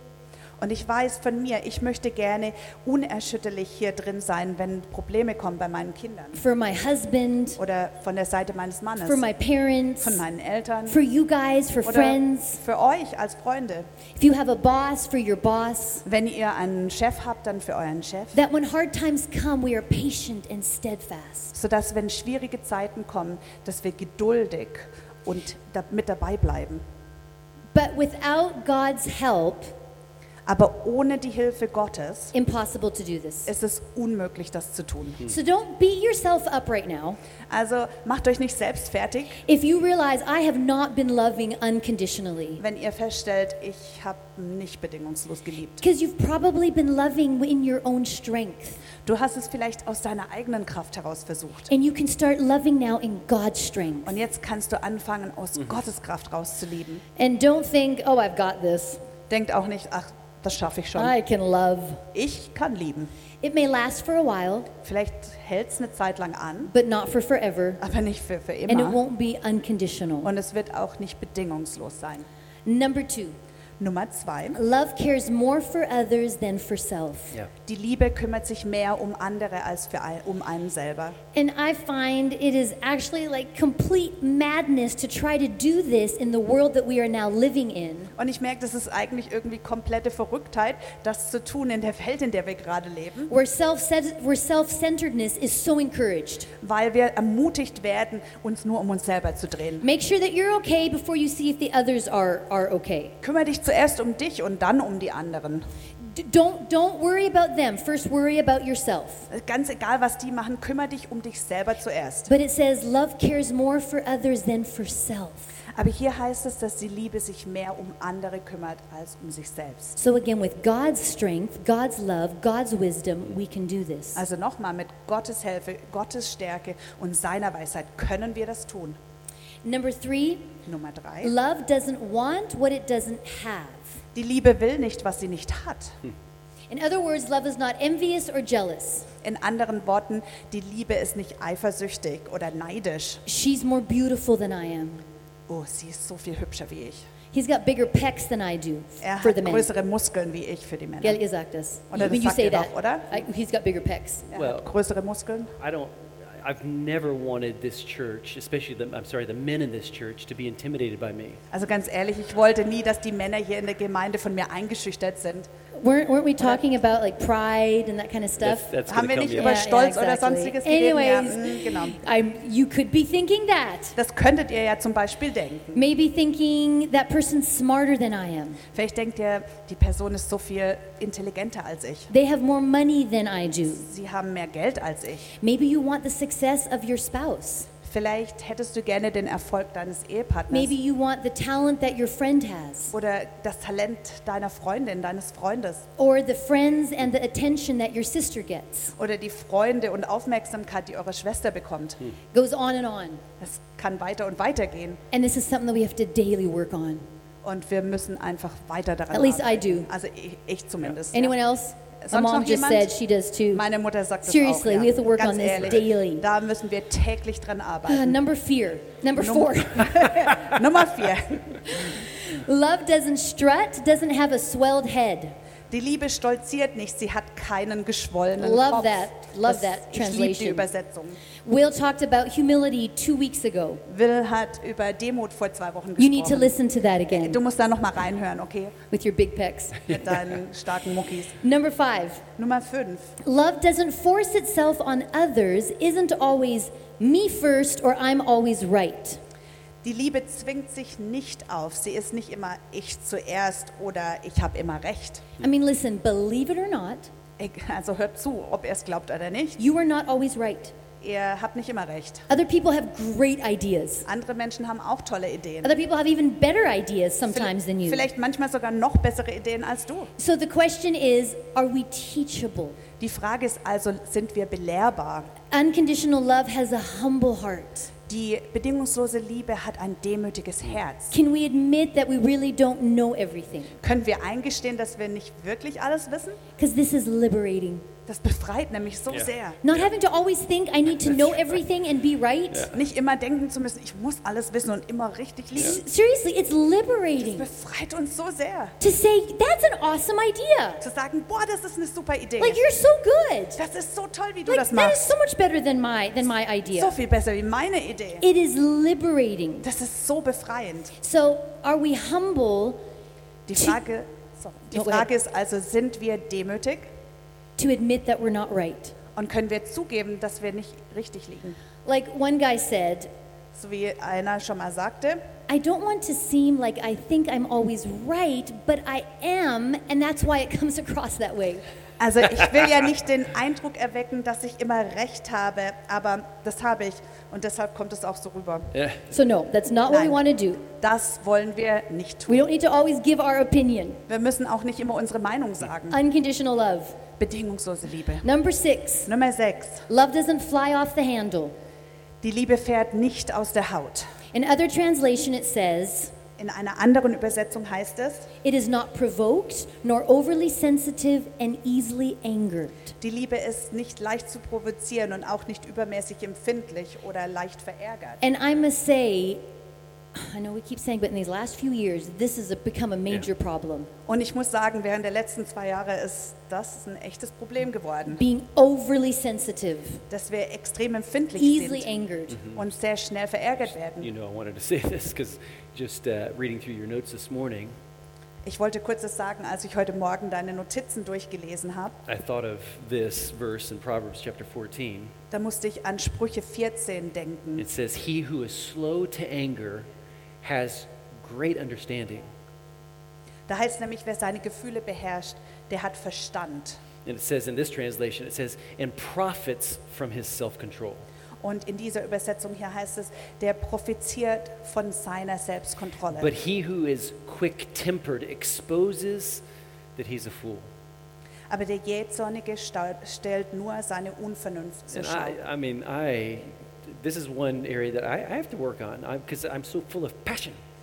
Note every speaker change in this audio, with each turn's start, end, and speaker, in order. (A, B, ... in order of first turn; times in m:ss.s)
0:00.6-0:06.4 A
0:06.4-0:07.6 B
0:07.6-0:09.3 A
0:09.0-0:10.2 B
0:10.0-0:11.0 A
0:10.9-0:12.6 B
0:11.8-0:13.9 A
0:14.2-0:16.0 B
0:16.0-0:18.4 A
0:18.3-0:21.5 B
0:21.5-0:26.8 A
0:27.7-0:29.7 B
0:30.5-0:32.3 A
0:32.3-0:33.5 B
0:33.5-0:35.2 A
0:35.2-0:37.2 B
0:37.5-0:39.4 A
0:39.5-0:42.6 B
0:42.6-0:45.8 A
0:45.8-0:48.8 B
0:49.0-0:51.7 A
0:51.7-0:54.2 B
0:54.0-0:57.0 A
0:57.2-0:59.0 B
0:59.3-1:01.1 A
1:01.0-1:02.0 B
1:02.1-1:03.1 A
1:03.4-1:04.7 B
1:04.8-1:06.7 A
1:06.7-1:07.8 B
1:07.8-1:09.0 A
1:08.7-1:10.3 B
1:10.2-1:12.3 A
1:12.6-1:13.4 B
1:13.8-1:14.6 A
1:14.6-1:17.4 B
1:17.6-1:21.2 A
1:21.3-1:28.1 B
1:28.2-1:33.3 A
1:33.3-1:36.5 B
1:36.6-1:39.8 A
1:39.8-1:43.2 B
1:43.2-1:45.6 A
1:46.1-1:49.3 B
1:49.3-1:52.3 A
1:52.3-1:55.5 B
1:55.8-2:00.0 A
2:00.0-2:04.2 B
2:04.2-2:09.0 A
2:09.6-2:10.6 B
2:10.6-2:11.3 A
2:11.2-2:14.0 B
2:14.1-2:16.0 A
2:16.7-2:19.1 B
2:19.2-2:23.2 A
2:23.3-2:25.0 B
2:25.5-2:27.0 A
2:27.3-2:29.7 B
2:29.0-2:31.2 A
2:31.0-2:34.3 B
2:31.9-2:33.2 A
2:34.3-2:35.5 A
2:34.3-2:34.7 C
2:35.6-2:41.4 C
2:41.5-2:45.5 A
2:45.8-2:48.7 B
2:48.4-2:49.6 C
2:48.9-2:52.0 A
2:49.4-2:54.0 B
2:54.0-2:55.8 A
2:55.8-2:58.6 B
2:58.7-3:02.1 A
3:02.1-3:03.8 B
3:03.8-3:05.3 A
3:05.4-3:07.7 B
3:07.8-3:10.7 A
3:10.5-3:12.9 B
3:12.9-3:15.9 A
3:16.0-3:18.9 B
3:19.0-3:22.0 A
3:22.3-3:23.2 B
3:23.4-3:25.0 A
3:25.1-3:27.0 B
3:27.4-3:31.4 A
3:29.1-3:29.9 B
3:31.1-3:33.6 B
3:32.0-3:32.9 A
3:33.5-3:38.2 A
3:34.2-3:36.2 B
3:37.9-3:40.5 B
3:39.2-3:41.9 A
3:41.7-3:45.4 B
3:45.7-3:51.2 A
3:48.4-3:50.7 B
3:51.4-3:53.8 B
3:53.9-3:56.5 A
3:56.0-3:57.4 B
3:57.1-3:58.8 A
3:58.9-3:59.9 B
3:59.9-4:01.4 A
4:01.4-4:02.2 B
4:02.4-4:03.2 A
4:03.2-4:09.2 B
4:09.8-4:15.3 A
4:15.4-4:17.1 B
4:17.4-4:19.6 A
4:19.6-4:20.7 B
4:21.0-4:22.3 A
4:22.3-4:24.1 B
4:24.0-4:25.7 A
4:25.6-4:28.1 B
4:27.3-4:30.1 A
4:30.2-4:32.8 B
4:33.0-4:35.3 A
4:35.5-4:37.9 B
4:38.1-4:41.2 A
4:41.1-4:43.7 B
4:43.8-4:46.4 A
4:46.6-4:47.9 B
4:48.1-4:49.6 A
4:49.1-4:49.9 C
4:49.6-4:52.7 B
4:51.1-4:51.5 C
4:52.7-4:55.8 A
4:55.6-4:57.5 B
4:57.2-4:58.8 A
4:58.8-5:00.8 B
5:00.8-5:02.6 A
5:02.4-5:03.6 B
5:03.6-5:05.1 A
5:04.5-5:06.9 B
5:06.7-5:08.2 A
5:08.2-5:09.7 B
5:09.6-5:11.0 A
5:11.0-5:12.8 B
5:13.5-5:16.9 A
5:14.7-5:15.1 B
5:17.6-5:19.0 B
5:19.1-5:21.6 A
5:21.8-5:23.1 B
5:23.5-5:25.2 A
5:25.5-5:31.6 B
5:32.0-5:38.7 A
5:38.7-5:39.0 C
5:39.1-5:40.7 B
5:39.9-5:42.5 A
5:42.3-5:44.0 B
5:44.1-5:46.0 A
5:45.9-5:47.0 B
5:47.2-5:48.2 A
5:48.2-5:49.1 B
5:49.1-5:49.9 A
5:49.9-5:51.5 B
5:52.2-5:54.1 A
5:54.3-5:56.1 B
5:56.4-5:58.3 A
5:58.4-6:03.0 B
6:03.0-6:08.2 A
6:08.2-6:09.4 B
6:10.1-6:13.9 B
6:14.1-6:18.2 A
6:18.1-6:20.0 B
6:20.1-6:21.9 A
6:21.4-6:22.4 B
6:22.3-6:22.6 C
6:22.5-6:24.1 A
6:24.0-6:27.8 C
6:28.4-6:32.0 A
6:32.1-6:35.1 C
6:35.3-6:37.7 A
6:37.6-6:39.9 C
6:40.4-6:42.3 C
6:43.5-6:46.8 A
6:47.0-6:51.0 C
6:51.4-6:56.3 A
6:56.2-6:59.4 C
7:00.0-7:00.7 C
7:01.5-7:05.4 A
7:04.9-7:10.6 C